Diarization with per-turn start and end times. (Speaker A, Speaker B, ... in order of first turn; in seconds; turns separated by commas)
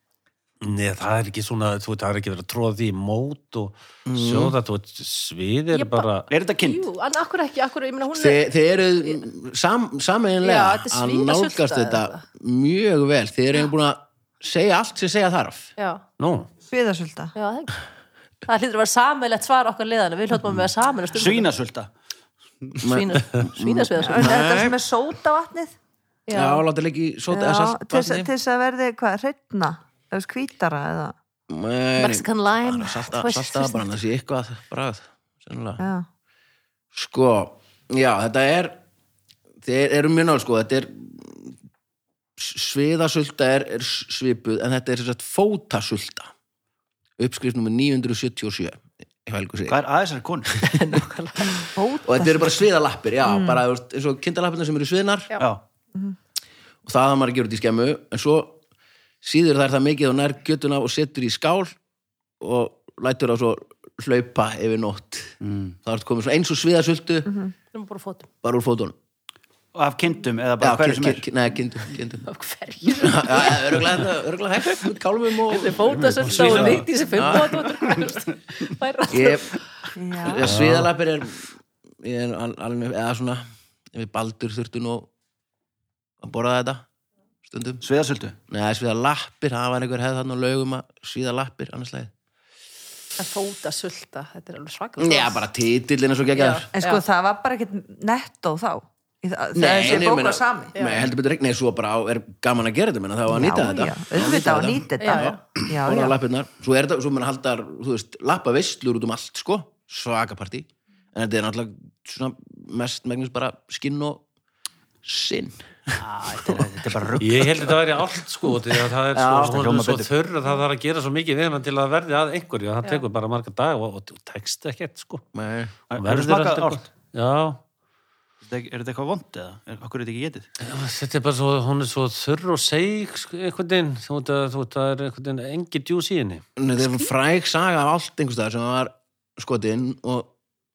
Speaker A: 0.6-6.3, Speaker B: 4.1-4.5, Speaker C: 5.7-8.5, Speaker D: 6.3-6.8, Speaker B: 8.1-15.7, Speaker C: 10.4-12.2, Speaker C: 15.8-16.0, Speaker A: 16.2-16.5, Speaker E: 16.7-17.3, Speaker C: 17.4-17.8, Speaker C: 18.5-21.5, Speaker D: 21.1-21.9, Speaker B: 22.8-24.8, Speaker C: 22.8-24.6, Speaker E: 24.0-25.7, Speaker C: 26.3-26.6, Speaker B: 26.3-28.3, Speaker E: 27.3-31.1, Speaker B: 31.5-35.8, Speaker C: 32.0-33.9, Speaker E: 35.8-36.1, Speaker B: 36.9-38.8, Speaker B: 39.6-41.6, Speaker B: 42.4-46.3, Speaker B: 47.2-49.8, Speaker D: 49.7-50.6, Speaker C: 50.6-51.7, Speaker E: 51.8-52.6, Speaker B: 52.0-55.3, Speaker E: 53.2-53.6, Speaker B: 56.9-58.6, Speaker B: 59.2-61.7, Speaker B: 62.4-67.4, Speaker D: 65.4-65.8, Speaker C: 67.7-68.3, Speaker B: 68.4-69.0, Speaker D: 69.8-71.3, Speaker B: 70.6-72.3, Speaker C: 72.3-74.0, Speaker B: 72.9-77.7, Speaker C: 75.5-79.5, Speaker A: 75.9-76.9, Speaker B: 79.1-79.5, Speaker E: 80.0-80.5, Speaker B: 80.2-85.1, Speaker A: 80.4-80.9, Speaker B: 86.2-86.8, Speaker B: 87.5-87.8, Speaker D: 87.8-88.4, Speaker B: 88.5-92.1, Speaker C: 93.2-95.5, Speaker B: 95.0-96.7, Speaker C: 96.3-97.0, Speaker E: 96.7-100.8, Speaker B: 99.5-114.2, Speaker C: 100.8-101.1, Speaker E: 103.3-106.2, Speaker C: 105.0-105.5, Speaker B: 115.0-116.0, Speaker D: 116.0-117.8, Speaker A: 117.2-125.2, Speaker B: 119.1-120.1, Speaker B: 125.3-125.7, Speaker D: 125.9-126.9, Speaker A: 125.9-127.6, Speaker D: 128.4-130.5, Speaker A: 130.6-136.4, Speaker B: 136.6-140.3